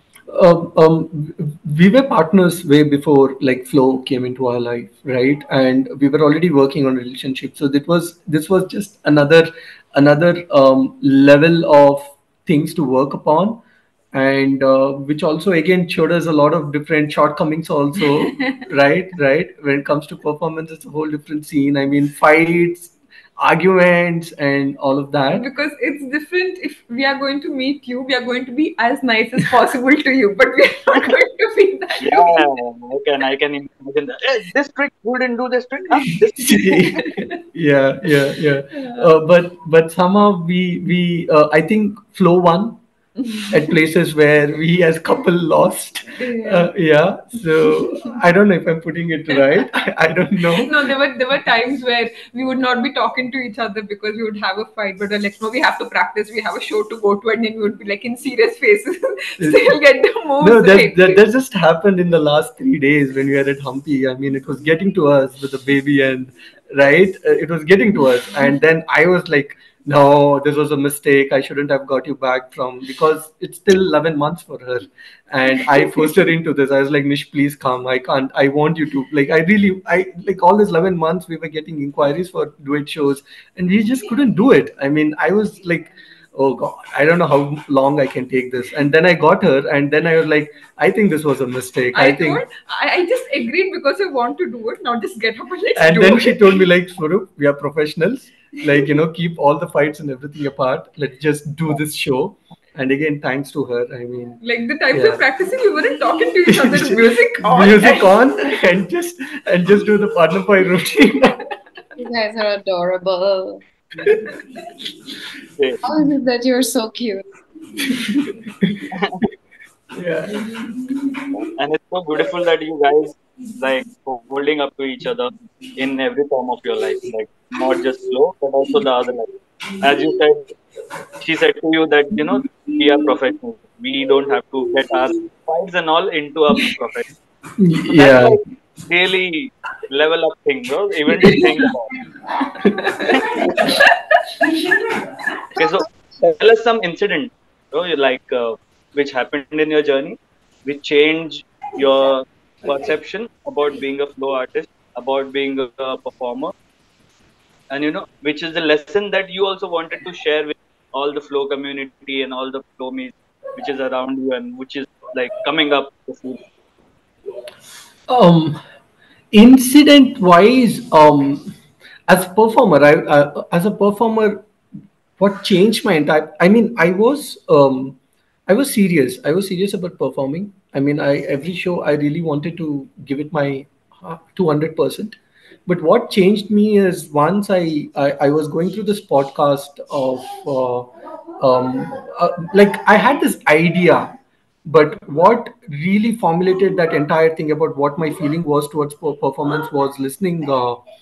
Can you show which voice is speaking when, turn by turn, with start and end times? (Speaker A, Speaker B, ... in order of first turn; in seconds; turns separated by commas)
Speaker A: 0.3-13.6, Speaker A: 14.1-25.5, Speaker B: 25.3-32.4, Speaker C: 32.0-37.0, Speaker A: 36.4-42.8, Speaker B: 37.0-37.2, Speaker B: 38.7-39.0, Speaker A: 43.5-50.7, Speaker B: 46.1-46.7, Speaker B: 50.6-61.2, Speaker A: 59.4-59.6, Speaker A: 60.4-92.4, Speaker B: 91.9-96.5, Speaker A: 95.8-104.4, Speaker B: 104.4-108.1, Speaker A: 104.9-105.2, Speaker A: 106.5-111.4, Speaker D: 112.0-113.6, Speaker A: 114.0-114.4, Speaker D: 115.8-117.2, Speaker A: 117.8-119.2, Speaker C: 118.9-119.2, Speaker A: 119.9-120.9, Speaker C: 121.4-129.3, Speaker C: 129.8-130.5, Speaker C: 131.2-137.1, Speaker A: 137.6-138.4, Speaker C: 137.9-141.9, Speaker B: 142.6-144.5, Speaker C: 143.0-143.7, Speaker C: 145.6-156.5, Speaker C: 157.7-166.4, Speaker A: 168.1-168.6, Speaker A: 169.3-171.5, Speaker A: 172.1-174.4, Speaker A: 175.2-200.8